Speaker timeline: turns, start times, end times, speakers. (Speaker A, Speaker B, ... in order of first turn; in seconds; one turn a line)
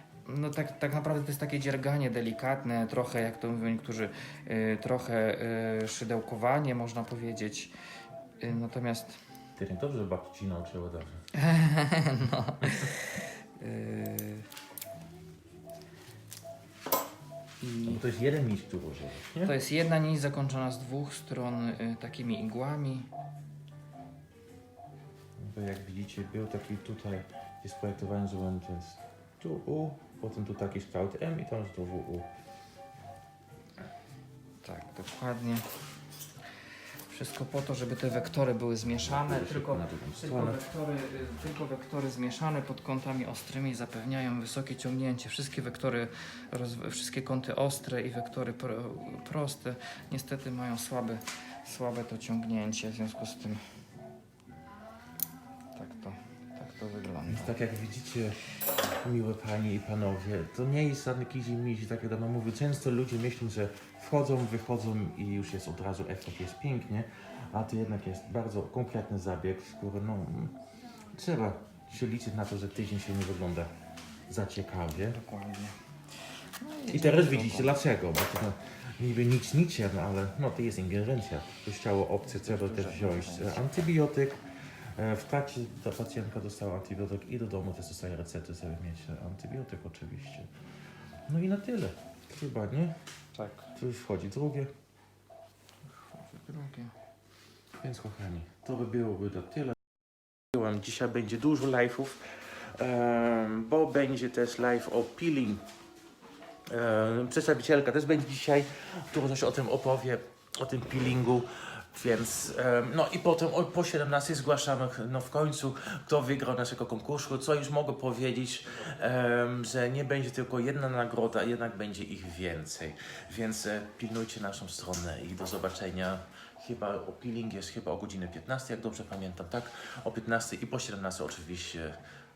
Speaker A: 0.3-7.7
Speaker A: 8.4-9.2
Speaker B: 9.6-11.2
Speaker A: 11.3-14.5
Speaker A: 17.6-18.0
Speaker B: 17.9-19.5
Speaker A: 19.4-23.1
Speaker B: 25.4-32.3
Speaker A: 34.6-35.7
Speaker A: 37.1-53.7
Speaker B: 38.8-40.6
Speaker A: 55.8-57.6
Speaker B: 57.3-58.4
Speaker B: 59.0-70.6
Speaker B: 71.1-73.7
Speaker B: 74.3-75.2
Speaker A: 75.0-77.8
Speaker B: 76.9-84.4
Speaker A: 82.2-83.8
Speaker B: 85.0-90.5
Speaker B: 91.3-93.0
Speaker A: 93.3-93.7
Speaker B: 93.8-94.7
Speaker A: 95.9-97.0
Speaker B: 97.8-99.8
Speaker B: 100.5-105.6
Speaker B: 106.7-132.0